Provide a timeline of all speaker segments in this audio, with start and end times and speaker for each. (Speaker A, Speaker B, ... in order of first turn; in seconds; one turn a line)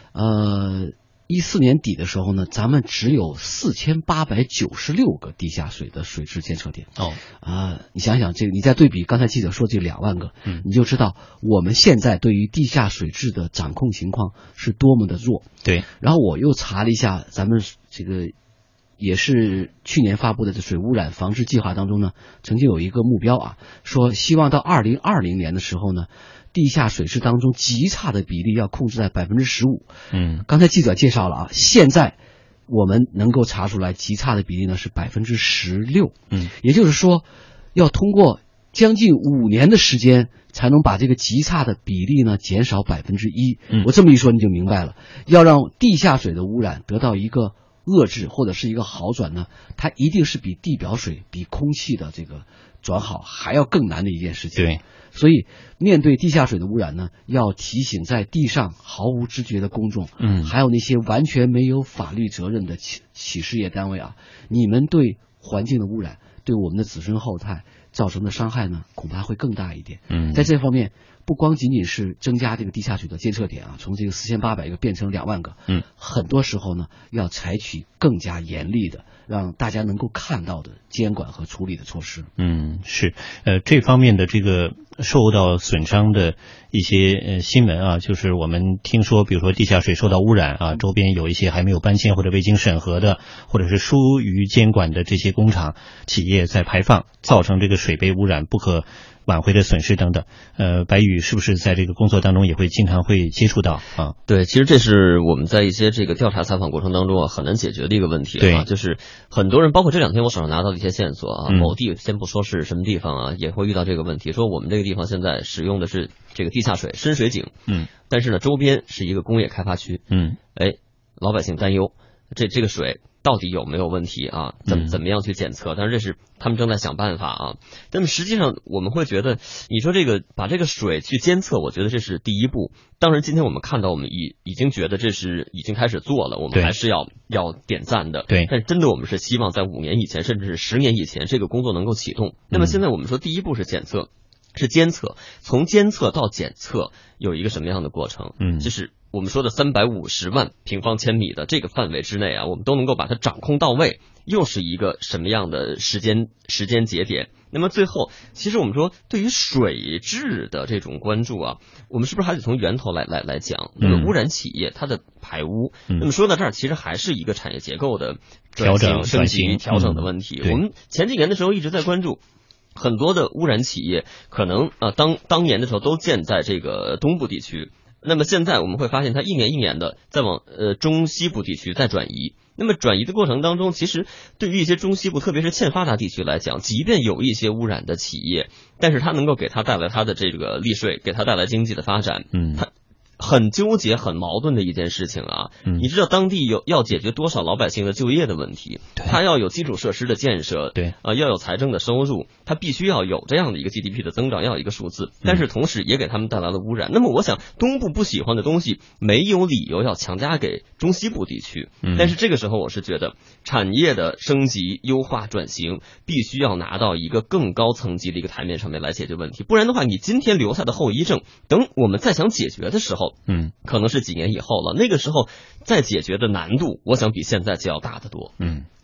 Speaker A: 0.1-6.9
Speaker A: 7.4-15.4
Speaker A: 16.0-18.3
Speaker A: 19.0-29.9
Speaker B: 30.1-30.4
Speaker A: 30.5-82.3
Speaker B: 60.2-60.5
Speaker B: 70.1-70.5
Speaker B: 82.4-104.2
Speaker C: 104.3-117.5
Speaker B: 108.4-108.7
Speaker B: 111.5-111.8
Speaker C: 118.1-120.0
Speaker B: 120.1-120.4
Speaker C: 120.5-172.2
Speaker B: 124.7-125.0
Speaker B: 142.5-142.8
Speaker B: 148.4-148.7
Speaker B: 163.8-164.1
Speaker B: 168.6-170.6
Speaker C: 172.8-228.3
Speaker B: 192.3-192.6
Speaker B: 211.8-212.2
Speaker B: 223.3-223.5
Speaker B: 228.4-228.7